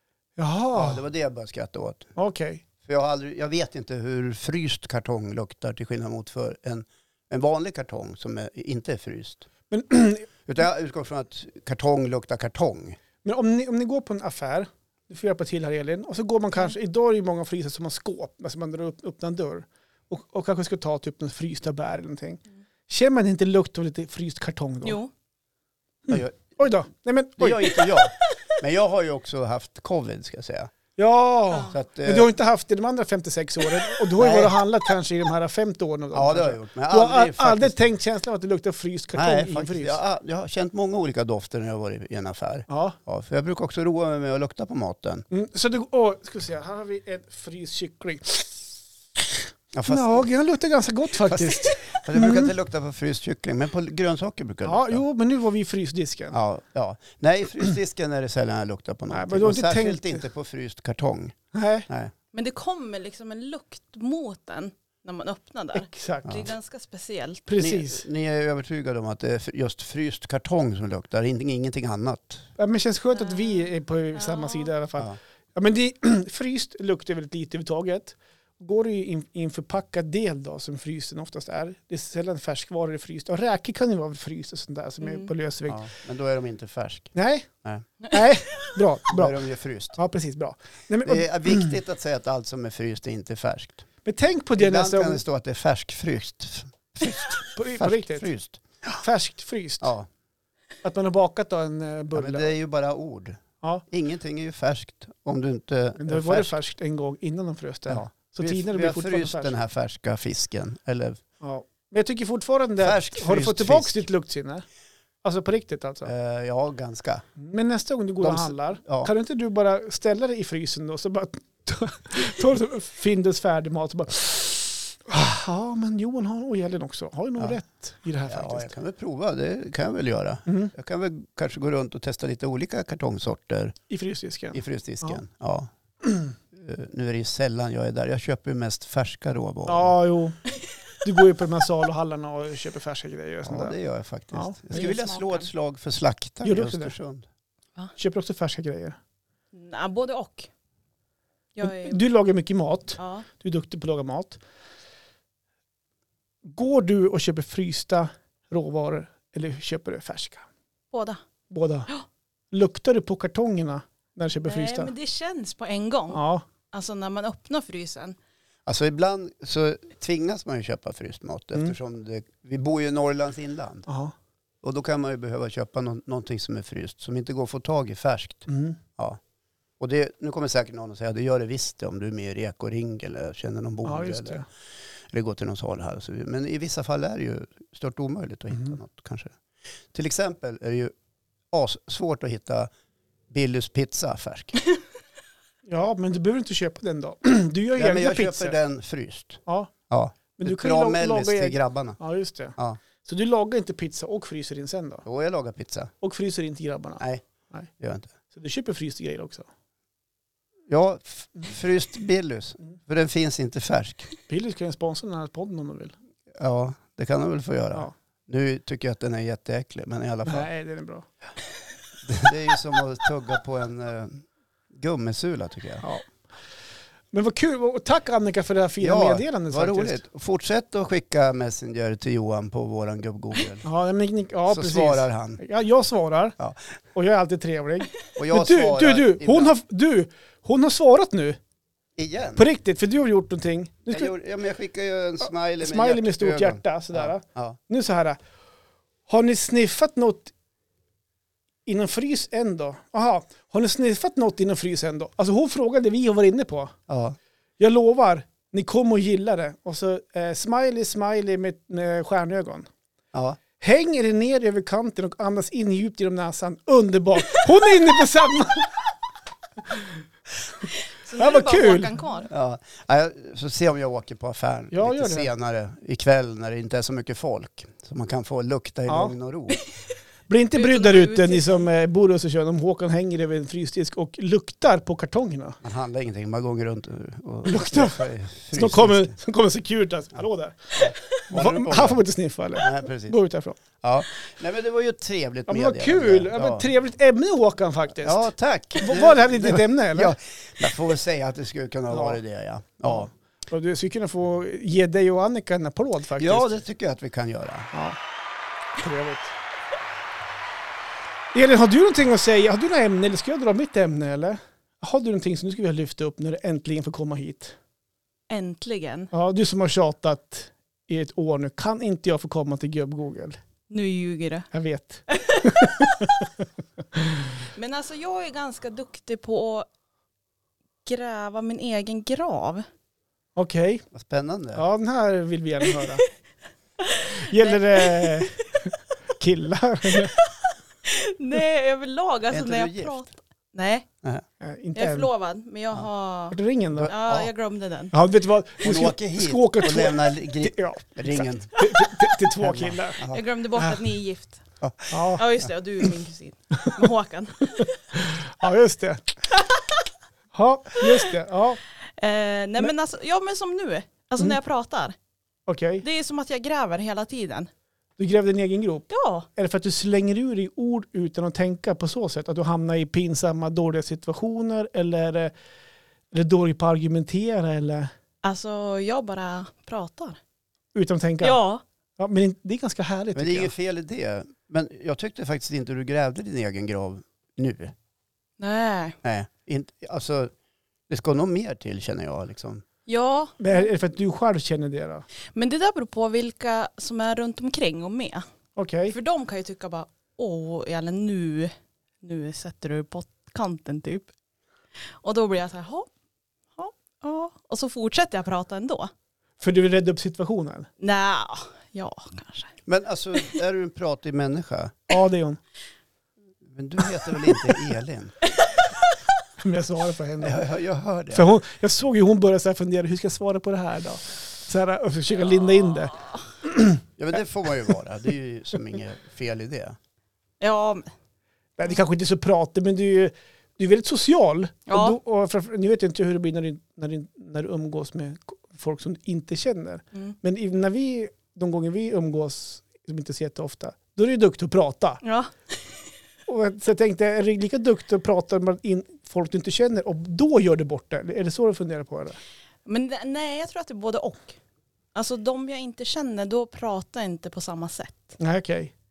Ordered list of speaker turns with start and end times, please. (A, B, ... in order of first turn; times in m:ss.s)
0:00.4-0:01.0 A
0:00.7-0:02.1 B
0:02.2-0:02.6 A
0:02.8-0:09.5 B
0:09.7-0:10.2 A
0:10.4-0:13.0 B
0:13.2-0:25.0 A
0:24.8-0:25.1 C
0:26.1-0:27.9 A
0:26.1-0:26.6 B
0:27.4-0:30.7 B
0:31.0-0:40.0 A
0:31.7-0:32.3 B
0:34.2-0:34.6 B
0:36.1-0:37.8 B
0:39.1-0:45.2 B
0:42.7-0:43.0 A
0:45.3-0:52.5 A
0:49.7-0:50.3 B
0:51.2-0:55.0 B
0:54.6-0:56.4 A
0:56.3-1:01.4 B
0:59.1-1:00.2 A
1:01.5-1:01.9 A
1:01.9-1:02.1 B
1:02.3-1:07.5 C
1:05.7-1:06.4 A
1:07.5-1:08.0 A
1:07.6-1:12.5 B
1:12.6-1:25.8 A
1:13.1-1:14.7 C
1:25.0-1:25.3 C
1:25.7-1:27.8 B
1:27.1-1:27.5 A
1:28.1-1:29.4 A
1:29.1-1:30.0 B
1:30.0-1:31.7 A
1:31.0-1:33.8 B
1:34.0-1:35.2 A
1:34.6-1:38.6 B
1:37.3-1:38.3 A
1:39.0-1:39.9 A
1:39.8-1:40.1 B
1:40.8-1:42.5 A
1:42.1-1:46.6 B
1:46.0-1:49.5 A
1:47.9-1:51.2 B
1:51.4-1:54.6 A
1:52.8-1:54.0 B
1:55.2-1:56.1 A
1:56.0-1:57.2 B
1:57.4-2:08.7 A
1:58.2-1:59.1 B
2:08.3-2:13.8 B
2:10.5-2:10.7 A
2:13.9-2:15.2 A
2:14.5-2:15.7 B
2:16.5-2:19.9 B
2:19.6-2:20.4 A
2:21.0-2:23.7 A
2:23.4-2:27.2 B
2:24.3-2:24.9 A
2:24.7-2:25.5 C
2:26.4-2:26.9 A
2:28.0-2:29.0 A
2:29.5-2:30.5 C
2:31.6-2:32.0 C
2:31.6-2:34.4 A
2:33.0-2:33.3 C
2:36.4-2:40.4 A
2:40.9-2:41.2 C
2:41.5-2:41.9 A
2:42.5-2:44.9 A
2:44.4-2:46.2 C
2:46.1-2:46.4 A
2:46.7-2:48.2 C
2:48.6-2:53.8 B
2:53.9-2:54.1 A
2:54.6-2:59.2 B
2:58.5-2:58.8 A
2:59.8-3:04.4 B
3:03.8-3:04.5 A
3:05.1-3:09.3 B
3:09.9-3:10.9 B
3:11.5-3:12.7 B
3:13.3-3:14.6 B
3:15.6-3:18.6 A
3:17.8-3:22.0 B
3:19.4-3:19.7 A
3:20.4-3:25.0 A
3:25.0-3:25.9 B
3:26.0-3:27.7 A
3:27.8-3:28.1 B
3:28.3-3:29.5 A
3:30.7-3:34.1 B
3:34.3-3:35.9 A
3:36.4-3:40.5 B
3:40.2-3:41.1 A
3:42.0-3:45.8 B
3:45.8-3:46.1 A
3:47.1-3:50.0 A
3:48.8-3:53.6 B
3:53.6-3:56.4 A
3:54.5-3:55.4 B
3:56.9-4:01.4 A
3:58.2-3:59.5 B
4:02.0-4:02.4 B
4:02.4-4:04.1 A
4:03.9-4:07.6 B
4:05.6-4:08.2 A
4:09.1-4:10.3 A
4:11.6-4:16.7 A
4:16.9-4:17.2 B
4:17.6-4:22.7 A
4:23.1-4:23.4 B
4:23.6-4:28.7 A
4:31.0-4:32.3 C
4:31.2-4:31.9 A
4:32.3-4:39.6 B
4:34.7-4:35.3 A
4:38.9-4:39.1 A
4:40.3-4:45.6 A
4:40.5-4:41.7 C
4:45.6-4:49.1 B
4:47.4-4:48.0 A
4:48.5-4:53.6 A
4:50.8-4:52.0 B
4:52.6-4:53.2 B
4:53.8-4:56.6 B
4:55.5-5:00.1 A
4:58.0-5:03.1 B
5:01.9-5:02.2 A
5:02.9-5:06.6 A
5:06.2-5:07.7 B
5:07.7-5:08.0 A
5:08.8-5:09.3 A
5:11.3-5:17.6 A
5:18.3-5:19.1 C
5:19.1-5:23.4 A
5:23.7-5:24.5 C
5:24.5-5:27.4 A
5:25.1-5:25.8 C
5:27.5-5:29.7 C
5:30.8-5:32.7 C
5:33.4-5:33.8 A
5:33.9-5:34.6 B
5:34.5-5:36.0 A
5:36.8-5:38.4 C
5:37.1-5:40.1 A
5:40.0-5:40.3 C
5:40.8-5:43.8 C
5:42.3-5:43.0 B
5:44.4-5:45.1 A
5:44.8-5:47.9 C
5:46.3-5:46.9 A
5:46.7-5:47.3 B
5:47.9-5:53.0 A
5:48.6-5:51.5 B
5:52.4-5:53.2 B
5:53.1-5:54.4 C
5:54.6-5:55.1 B
5:54.9-5:55.2 A
5:55.2-5:57.8 C
5:57.6-5:59.1 A
5:59.4-5:59.6 C
6:00.3-6:01.6 A
6:02.0-6:05.0 C
6:05.5-6:05.8 A
6:05.8-6:07.5 C
6:08.0-6:15.3 A
6:08.9-6:09.3 C
6:16.1-6:17.9 A
6:18.2-6:20.2 C
6:20.7-6:21.4 A
6:21.2-6:21.6 C
6:22.0-6:23.5 A
6:23.1-6:27.7 B
6:28.4-6:29.0 C
6:29.0-6:30.3 B
6:30.9-6:32.6 B
6:32.8-6:33.7 C
6:33.4-6:35.0 A
6:35.3-6:38.2 C
6:38.6-6:38.9 A
6:38.9-6:44.1 C
6:45.0-6:45.9 C
6:46.6-6:48.9 C
6:49.4-6:50.7 A
6:50.8-6:52.5 C
6:52.6-6:54.8 B
6:54.9-6:55.4 A
6:56.4-6:58.2 B
6:59.4-7:00.4 A
7:00.2-7:01.3 B
7:01.1-7:06.8 A
7:07.0-7:09.8 B
7:10.4-7:10.9 C
7:11.6-7:25.0 A
7:14.7-7:15.0 C
7:25.0-7:25.8 C
7:26.3-7:32.2 A
7:32.6-7:34.4 C
7:34.9-7:38.2 C
7:38.2-7:38.7 A